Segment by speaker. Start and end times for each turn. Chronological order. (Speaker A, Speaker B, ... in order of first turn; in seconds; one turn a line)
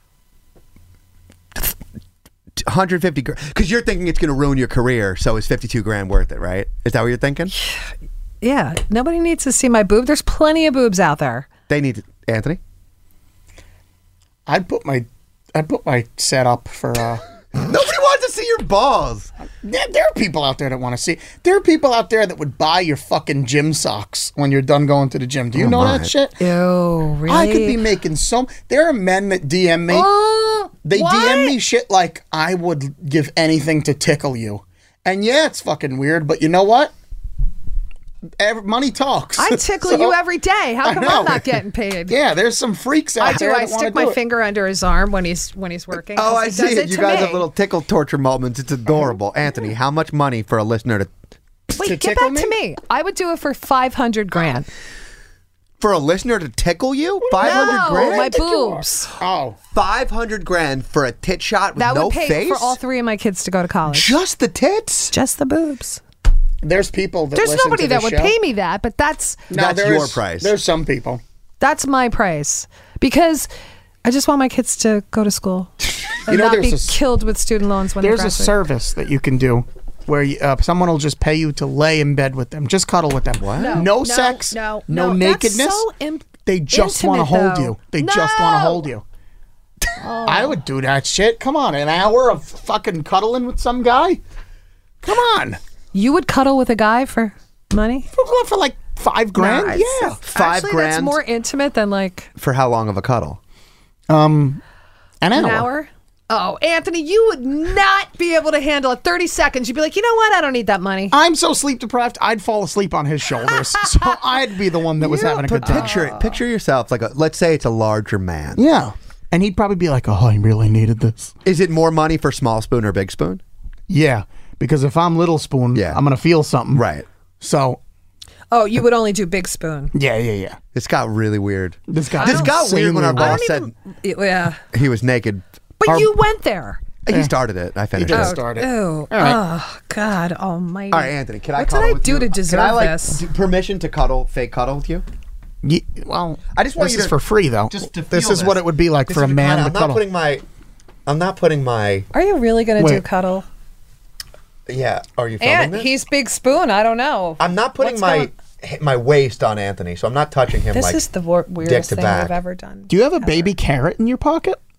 Speaker A: 2.6-7.5
Speaker B: 8.4-11.5
Speaker A: 11.7-12.6
Speaker C: 14.4-17.2
Speaker A: 17.5-19.3
Speaker C: 19.6-26.3
Speaker A: 25.6-26.1
Speaker B: 26.4-27.8
Speaker C: 27.3-30.1
Speaker B: 29.9-31.6
Speaker C: 30.8-36.9
Speaker C: 38.4-40.1
Speaker B: 39.4-42.1
Speaker C: 40.8-44.2
Speaker B: 43.2-47.5
Speaker A: 46.1-51.1
Speaker C: 51.7-52.5
Speaker B: 51.8-54.7
Speaker A: 55.8-58.3
Speaker C: 57.2-59.5
Speaker B: 57.4-59.1
Speaker A: 59.7-62.8
Speaker B: 61.8-64.2
Speaker A: 63.9-65.1
Speaker B: 65.1-66.0
Speaker C: 66.6-68.3
Speaker B: 67.3-69.5
Speaker C: 69.5-71.2
Speaker A: 69.5-70.5
Speaker B: 71.6-73.5
Speaker B: 74.0-75.7
Speaker B: 76.2-78.6
Speaker C: 76.3-77.0
Speaker C: 78.0-85.8
Speaker A: 83.4-83.9
Speaker B: 83.5-88.9
Speaker C: 86.4-89.0
Speaker B: 90.0-90.6
Speaker C: 90.2-94.2
Speaker C: 95.0-95.6
Speaker B: 95.9-98.1
Speaker C: 98.1-100.2
Speaker B: 99.3-102.3
Speaker A: 100.3-101.2
Speaker A: 102.4-103.4
Speaker C: 104.1-104.6
Speaker C: 105.2-105.7
Speaker B: 105.3-111.2
Speaker C: 111.1-115.8
Speaker A: 115.0-118.6
Speaker B: 115.6-116.4
Speaker C: 118.5-121.3
Speaker A: 121.4-123.4
Speaker C: 123.9-126.8
Speaker A: 125.7-126.0
Speaker A: 126.7-127.0
Speaker C: 127.4-127.8
Speaker B: 128.5-129.9
Speaker C: 129.9-130.6
Speaker A: 130.7-133.7
Speaker C: 131.9-133.3
Speaker B: 132.2-132.5
Speaker B: 133.2-134.6
Speaker A: 134.7-135.4
Speaker B: 135.8-136.8
Speaker C: 135.8-136.1
Speaker A: 137.1-138.4
Speaker C: 138.0-139.4
Speaker B: 138.1-143.2
Speaker A: 140.9-145.0
Speaker C: 145.6-150.0
Speaker A: 146.5-147.2
Speaker A: 147.7-150.4
Speaker A: 151.1-152.1
Speaker B: 152.1-153.4
Speaker A: 154.7-155.9
Speaker B: 155.4-158.3
Speaker A: 157.4-161.0
Speaker B: 160.7-163.5
Speaker A: 161.6-162.3
Speaker C: 162.9-164.6